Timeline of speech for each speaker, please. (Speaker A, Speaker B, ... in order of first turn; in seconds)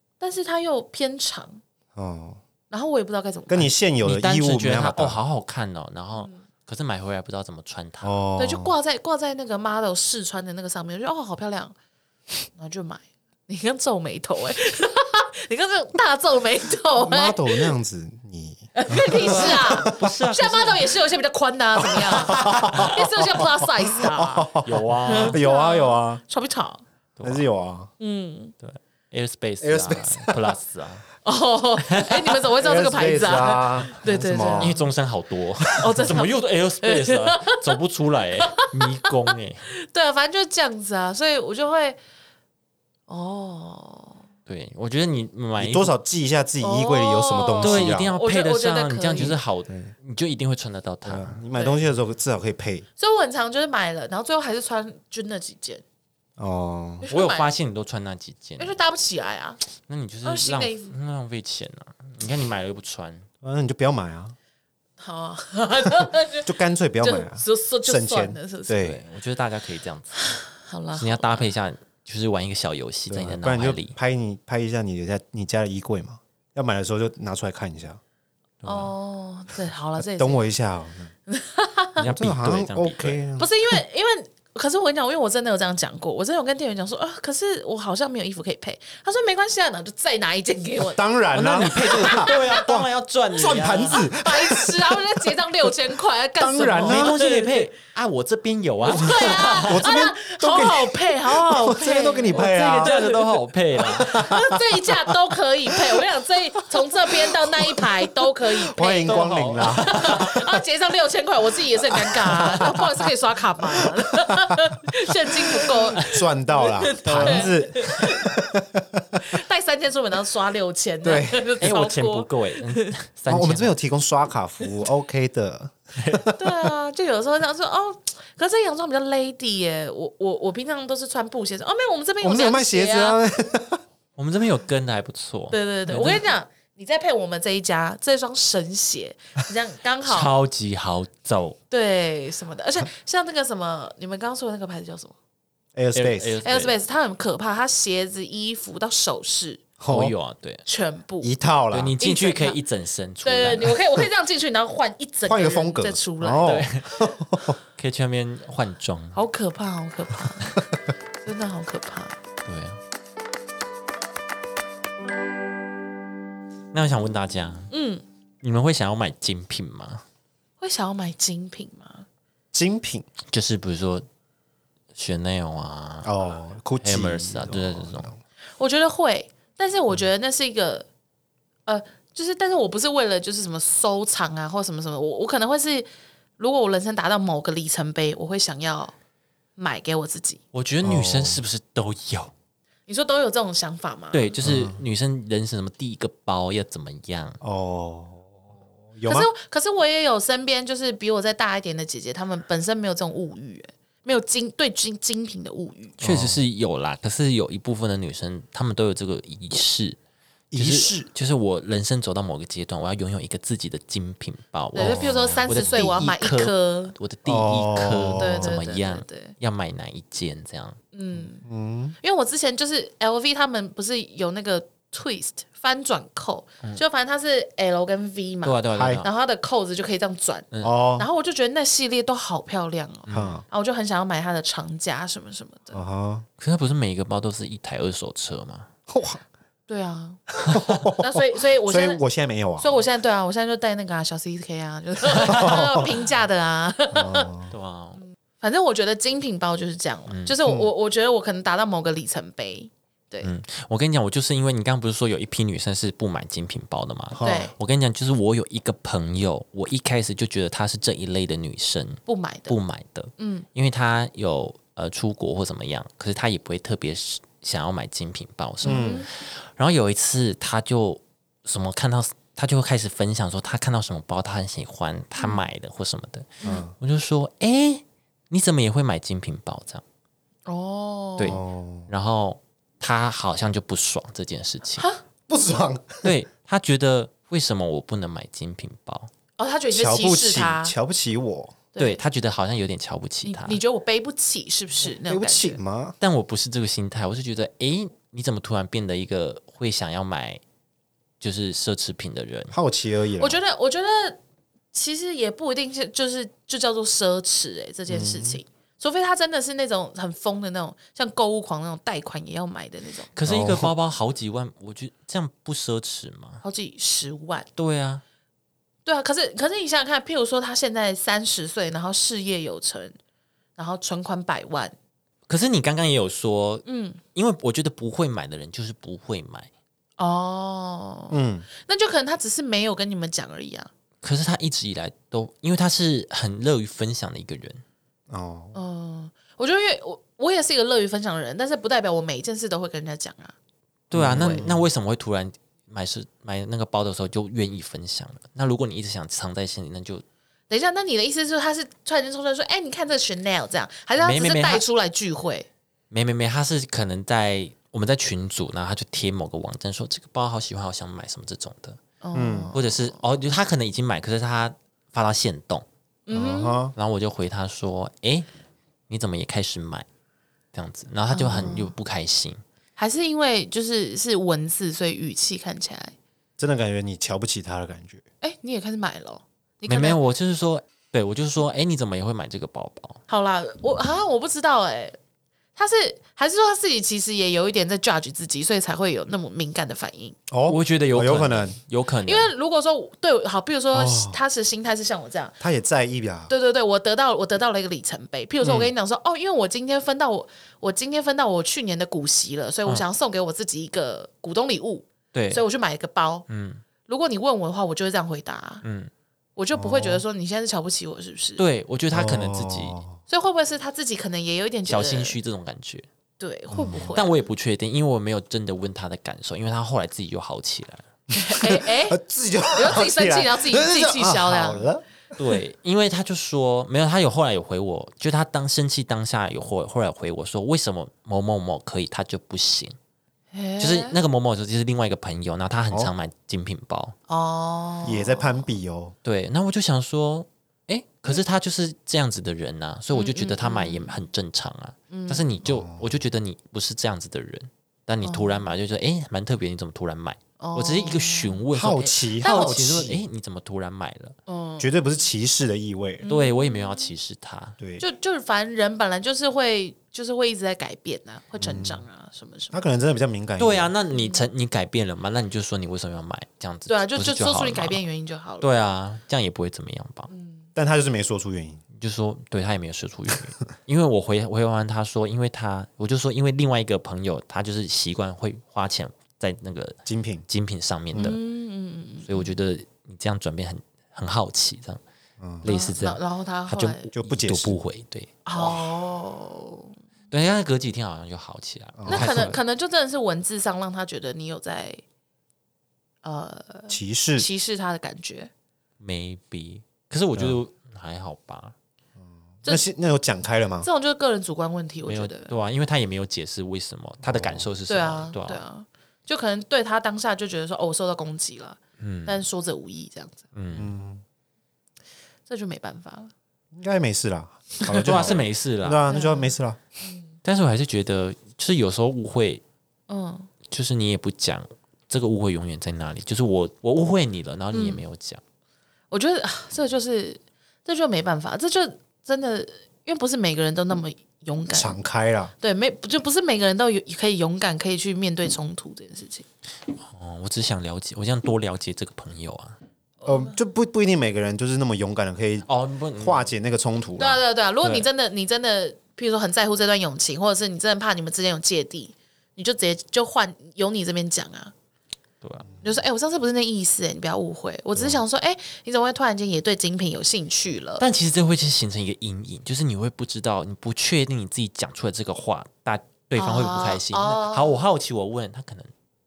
Speaker A: 0.2-1.6, 2.7-3.8, 8.4-11.8, 12.6-17.7, 18.7-24.6, 25.1-26.8, 28.0-28.5, 31.2-34.8, 35.8-37.6, 38.4-42.0, 43.1-44.2, 46.6-49.4, 51.5-51.8, 53.0-55.8, 57.0-57.5, 58.6-59.6, 60.2-60.9, 65.0-68.8, 70.2-71.5, 78.6-80.5, 81.3-82.1, 83.4-91.0, 91.6-92.6, 94.1-97.7, 98.8-103.3, 103.9-118.5, 119.2-122.9, 126.3-133.2, 135.5-140.3, 141.7-145.2, 146.4-149.6, 150.7-151.3, 152.0-152.6, 153.2-156.6, 159.1-160.7, 161.2-162.2, 167.7-168.0, 170.6-172.1, 178.6-180.9, 181.7-188.9, 189.6-190.4, 192.9-194.4, 199.1-206.0, 214.7-216.9, 218.2-219.3, 220.9-221.4, 222.0-235.8, 239.7-240.2, 241.0-242.0, 242.6-247.3, 248.0-253.3, 257.2-257.5, 262.1-262.6, 263.2-263.5, 268.6-269.1, 275.2-275.4, 280.5-281.4, 289.4-290.7, 293.2-295.6, 303.2-304.2, 304.7-313.1, 316.4-317.5, 318.9-322.9, 323.6-324.8, 326.7-327.0, 330.0-333.7, 338.5-343.4, 344.2-344.4, 350.5-355.5, 362.0-363.0, 366.1-366.6, 371.1-371.7, 372.8-375.9, 378.2-380.0, 383.1-385.0, 385.6-390.2, 392.1-395.4, 396.3-406.3, 406.9-408.6, 409.4-411.4, 413.1-415.2, 416.2-417.2, 421.1-422.0, 422.5-424.7, 433.3-434.0, 437.1-438.5, 442.9-444.0, 444.9-445.3, 448.0-448.5, 450.4-452.6, 454.3-454.7, 456.0-456.9, 457.8-462.6, 463.9-464.3, 466.7-468.5, 470.1-470.5, 481.0-482.4, 485.4-486.9, 488.3-489.7, 491.9-494.8, 496.0-498.3, 503.6-505.3, 507.7-513.2, 515.3-516.1, 517.6-518.1, 518.9-520.1, 522.9-523.3, 527.5-527.8, 528.9-534.8, 535.4-539.3, 543.0-543.4, 547.0-554.5, 555.6-560.8, 566.2-567.6
Speaker B: 1.9-2.4, 3.5-5.2, 8.0-8.7, 17.0-20.1, 21.9-26.2, 27.2-27.9, 29.6-30.6, 32.6-34.8, 45.6-48.1, 49.2-49.9, 51.0-52.9, 56.4-57.1, 63.4-64.4, 66.0-69.0, 73.1-78.0, 80.0-81.1, 82.0-83.5, 90.8-95.7, 96.4-97.2, 98.9-103.2, 103.8-105.1, 106.8-110.4, 111.9-112.9, 113.7-114.4, 115.3-119.4, 121.0-121.5, 123.3-126.5, 132.2-133.8, 145.8-146.4, 149.8-150.1, 151.2-152.0, 155.3-157.6, 172.5-173.1, 176.0-178.2, 190.8-191.4, 194.4-194.8, 197.4-199.3, 206.0-206.4, 210.5-211.1, 214.8-215.9, 217.3-218.6, 221.4-222.0, 228.7-229.1, 230.6-231.1, 233.1-233.4, 235.7-236.2, 238.9-239.2, 240.5-242.8, 245.2-245.9, 246.9-247.5, 250.4-250.7, 257.1-257.5, 268.6-269.1, 276.4-276.7, 281.2-281.9, 285.3-286.1, 289.7-291.6, 294.9-296.0, 302.5-303.4, 307.9-308.4, 313.2-313.7, 331.1-331.5, 338.1-338.6, 343.9-344.7, 362.1-362.6, 366.1-366.7, 376.4-378.0, 390.3-391.6, 393.7-394.2, 395.4-396.3, 398.4-398.7, 409.5-410.0, 411.9-413.0, 416.5-417.0, 421.3-424.8, 437.8-438.9, 445.5-445.9, 451.5-453.0, 454.6-456.1, 461.4-461.8, 462.5-463.7, 470.6-471.6, 479.9-480.3, 485.2-485.5, 486.9-487.6, 488.4-488.6, 491.8-492.2, 496.7-497.3, 502.4-503.7, 507.0-507.5, 513.5-514.0, 516.5-519.6, 534.5-535.3, 543.1-545.5, 546.0-547.2, 557.8-558.0
Speaker C: 4.0-8.2, 19.1-21.0, 22.2-22.9, 24.6-25.4, 27.2-27.4, 28.6-31.1, 31.9-32.4, 34.6-39.7, 44.5-45.9, 47.6-51.4, 57.1-58.8, 59.9-63.3, 68.7-70.2, 71.0-74.0, 78.6-78.9, 82.0-83.2, 91.3-94.0, 96.8-99.9, 101.7-104.3, 109.1-110.4, 117.0-117.7, 121.6-123.8, 126.0-126.3, 134.2-136.3, 140.0-141.6, 146.0-146.8, 149.9-150.7, 151.7-154.0, 156.4-157.1, 157.8-159.2, 162.5-162.8, 166.7-167.7, 168.4-170.0, 173.3-174.1, 174.9-176.1, 176.8-178.1, 190.5-192.3, 194.1-197.4, 206.0-210.0, 210.5-220.8, 228.4-229.1, 233.1-233.3, 236.4-238.7, 240.4-240.8, 245.1-245.8, 247.5-248.0, 250.1-250.4, 253.2-279.8, 281.2-284.9, 286.0-289.1, 291.8-293.6, 296.0-300.4, 301.2-302.5, 313.1-316.4, 317.6-318.0, 325.3-329.5, 334.0-337.6, 343.9-350.0, 354.0-354.6, 355.9-361.8, 362.5-365.6, 366.8-368.3, 368.9-369.9, 370.5-372.4, 379.7-383.0, 390.5-392.3, 405.1-405.4, 406.3-406.6, 408.6-408.9, 411.4-412.8, 414.7-415.9, 416.9-420.8, 425.2-432.8, 433.6-436.9, 439.0-454.2, 456.1-457.6, 463.4-467.8, 468.4-470.1, 471.7-481.2, 482.1-484.8, 485.4-488.2, 490.1-492.4, 498.8-501.5, 504.9-508.4, 511.8-512.2, 513.3-513.7, 517.8-518.8, 520.2-522.4, 523.5-528.2, 539.8-542.6, 545.5-546.3, 547.6-547.9, 555.2-555.5, 560.8-568.7